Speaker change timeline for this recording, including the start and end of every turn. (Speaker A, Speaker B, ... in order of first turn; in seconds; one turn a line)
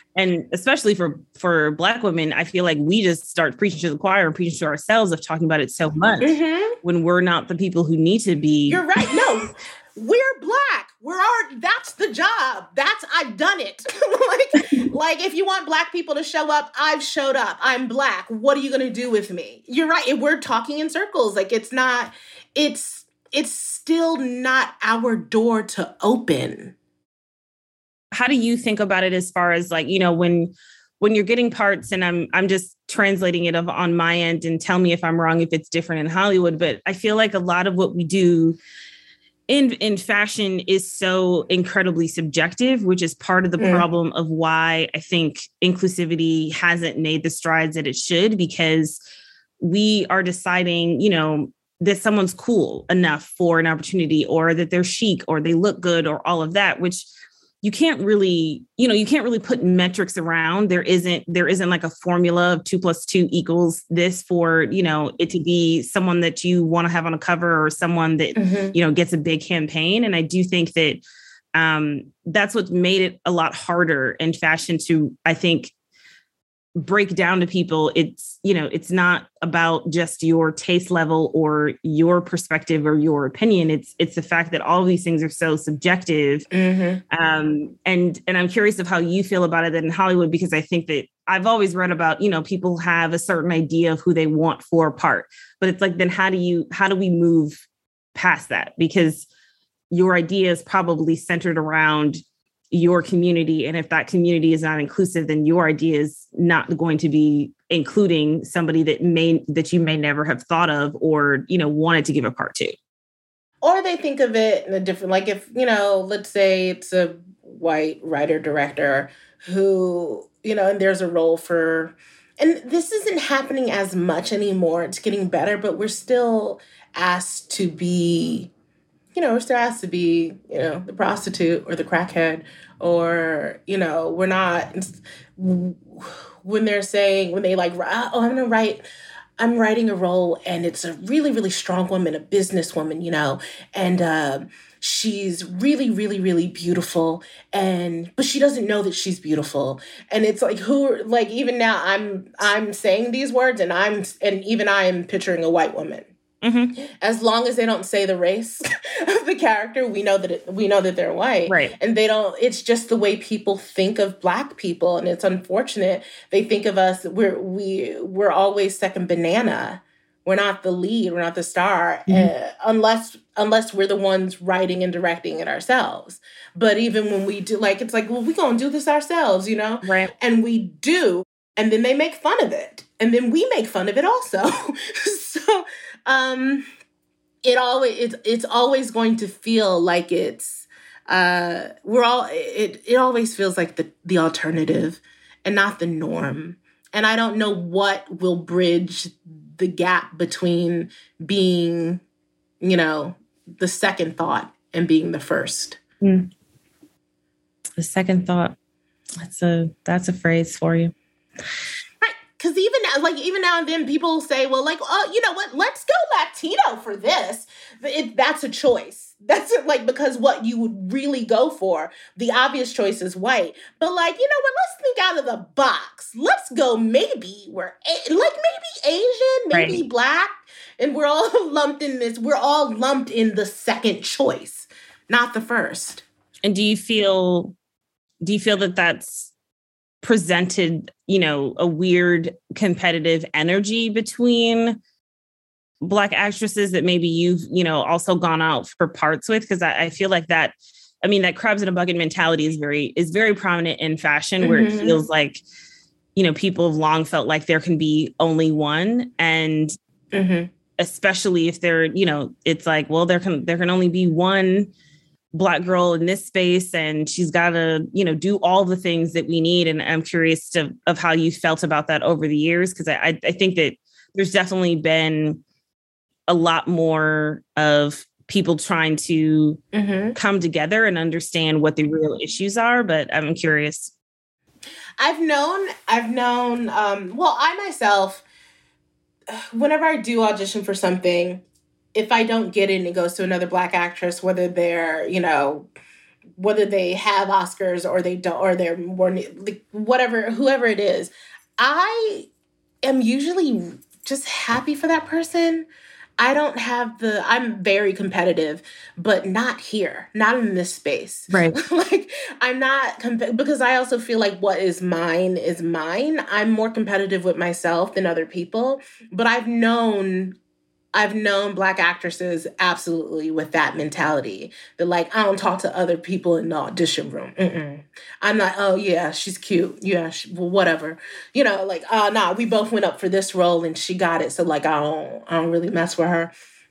Speaker A: 0.1-9.2
Speaker B: 6.2-6.8
Speaker B: 8.7-26.7
Speaker A: 28.1-38.6
Speaker A: 39.5-49.0
Speaker B: 43.6-43.8
Speaker A: 49.6-57.1
Speaker A: 57.6-71.0
Speaker B: 68.3-68.7
Speaker A: 71.5-75.7
Speaker A: 76.8-86.5
Speaker B: 86.5-87.0
Speaker A: 87.1-99.3
Speaker A: 99.9-112.7
Speaker B: 113.6-128.5
Speaker B: 129.1-138.8
Speaker B: 139.4-156.1
Speaker A: 156.4-156.7
Speaker B: 157.0-186.7
Speaker A: 161.5-161.7
Speaker A: 179.8-180.1
Speaker B: 187.4-202.0
Speaker B: 202.6-205.8
Speaker A: 206.0-206.3
Speaker A: 207.8-208.5
Speaker A: 209.2-210.9
Speaker B: 212.0-236.0
Speaker A: 229.5-229.8
Speaker A: 236.4-237.5
Speaker A: 238.2-239.3
Speaker A: 240.0-244.8
Speaker A: 245.8-255.4
Speaker B: 254.4-255.0
Speaker A: 256.1-259.7
Speaker B: 260.1-260.5
Speaker A: 260.8-264.7
Speaker A: 265.3-275.4
Speaker A: 276.3-279.6
Speaker B: 279.7-280.1
Speaker A: 280.1-283.9
Speaker B: 285.0-288.2
Speaker B: 289.3-291.4
Speaker B: 291.9-295.7
Speaker B: 296.4-302.3
Speaker B: 302.8-305.7
Speaker B: 306.2-320.4
Speaker A: 311.3-311.6
Speaker B: 320.9-336.3